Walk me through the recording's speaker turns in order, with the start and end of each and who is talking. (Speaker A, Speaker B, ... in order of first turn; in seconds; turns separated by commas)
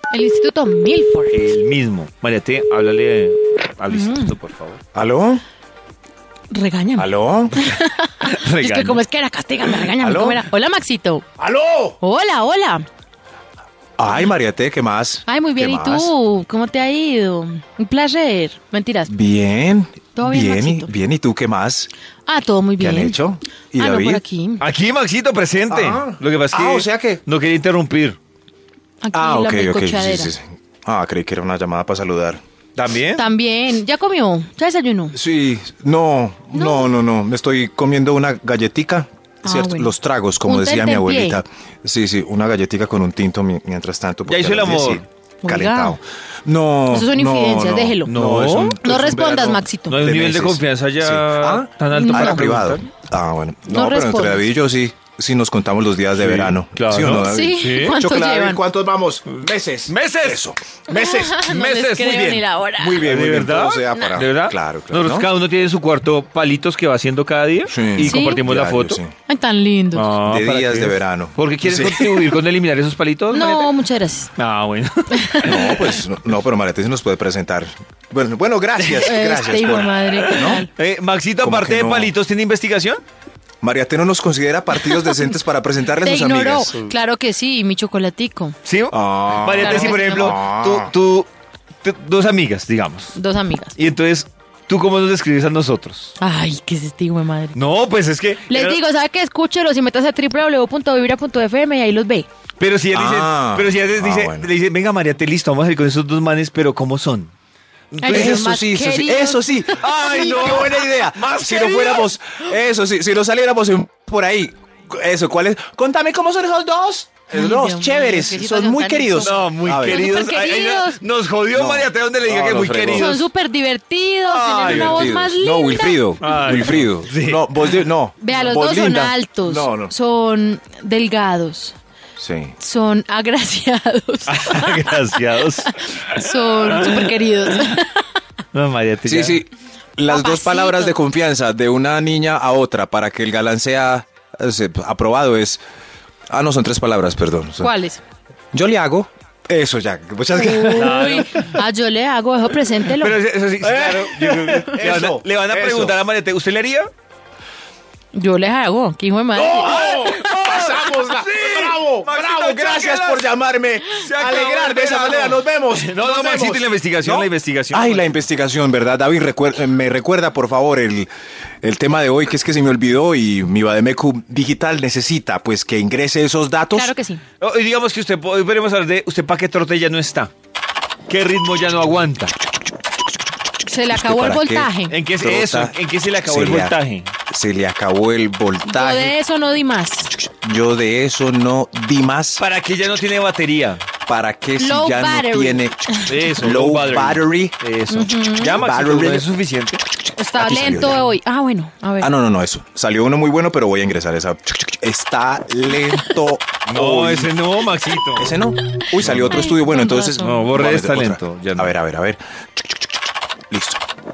Speaker A: 0.1-1.5, Speaker B: 1.3-4.8, Speaker A: 3.9-4.3, Speaker C: 4.9-5.4, Speaker A: 6.5-11.2, Speaker C: 7.0-7.7, Speaker B: 8.2-9.0, Speaker C: 10.0-10.4, Speaker C: 11.4-12.0, Speaker A: 12.0-12.8, Speaker C: 14.0-16.1, Speaker A: 15.3-19.1, Speaker C: 19.1-21.9, Speaker A: 20.1-20.9, Speaker A: 22.3-23.2, Speaker C: 22.8-24.2, Speaker A: 23.8-24.6, Speaker B: 24.6-28.2, Speaker C: 25.7-27.2, Speaker A: 29.0-30.3, Speaker C: 29.1-32.4, Speaker B: 32.8-33.2, Speaker A: 33.2-35.1, Speaker C: 35.1-65.3, Speaker A: 36.5-36.9, Speaker A: 39.4-39.9, Speaker A: 40.4-41.4, Speaker B: 44.3-45.0, Speaker A: 45.4-46.0, Speaker A: 46.9-48.1, Speaker B: 48.1-48.8, Speaker A: 48.8-50.0, Speaker B: 49.9-52.9, Speaker A: 51.9-52.5, Speaker A: 53.7-54.4, Speaker B: 56.2-58.0, Speaker A: 57.2-58.6, Speaker B: 59.4-60.4, Speaker A: 60.9-63.0, Speaker B: 63.0-69.0, Speaker C: 67.7-69.1, Speaker A: 68.0-68.4, Speaker A: 69.3-70.1, Speaker B: 70.0-73.7, Speaker C: 70.2-72.2, Speaker A: 73.3-74.3, Speaker B: 74.4-75.7, Speaker A: 75.1-75.8, Speaker C: 75.4-80.6, Speaker A: 79.0-80.7, Speaker B: 80.1-83.0, Speaker C: 81.4-82.1, Speaker C: 83.6-86.7, Speaker A: 86.0-88.5, Speaker B: 88.6-91.3, Speaker C: 88.9-90.9, Speaker A: 89.6-90.4, Speaker B: 91.8-93.2, Speaker A: 93.1-93.7, Speaker B: 93.8-96.1, Speaker A: 96.2-97.6, Speaker B: 97.5-98.8, Speaker A: 98.5-102.3, Speaker B: 102.6-107.3, Speaker C: 102.9-104.5, Speaker B: 107.9-108.5, Speaker A: 108.0-109.7, Speaker C: 108.1-120.1, Speaker B: 109.8-112.1, Speaker A: 117.3-121.0, Speaker B: 119.2-123.3, Speaker C: 121.5-123.2, Speaker A: 122.9-126.0, Speaker B: 124.2-125.1, Speaker C: 124.6-129.9, Speaker B: 126.2-127.8, Speaker A: 128.2-131.8, Speaker C: 132.2-132.5, Speaker A: 132.6-138.1, Speaker B: 134.3-137.1, Speaker B: 138.5-139.4, Speaker C: 139.1-145.6, Speaker A: 140.1-140.9, Speaker C: 146.3-147.7, Speaker A: 147.6-148.0, Speaker C: 148.5-151.1, Speaker A: 150.3-153.2, Speaker B: 150.7-151.5, Speaker B: 152.9-156.9, Speaker C: 153.6-156.0, Speaker A: 158.1-160.1, Speaker C: 159.3-171.1, Speaker B: 159.4-163.3, Speaker B: 163.9-168.1, Speaker C: 171.6-176.9, Speaker A: 176.7-177.2, Speaker B: 177.4-180.3, Speaker B: 181.1-182.3, Speaker A: 183.6-184.9, Speaker C: 183.9-186.8, Speaker B: 184.9-187.1, Speaker C: 187.3-189.2, Speaker A: 188.6-190.1, Speaker C: 190.2-192.4, Speaker B: 192.4-193.8, Speaker C: 194.1-197.6, Speaker A: 194.6-196.1, Speaker B: 196.1-199.8, Speaker A: 197.9-198.6, Speaker C: 198.3-199.3, Speaker C: 199.9-201.1, Speaker A: 200.2-202.1, Speaker C: 202.0-207.3, Speaker B: 206.7-208.4, Speaker C: 208.2-213.8, Speaker B: 209.0-209.5, Speaker A: 209.3-210.4, Speaker B: 210.1-211.7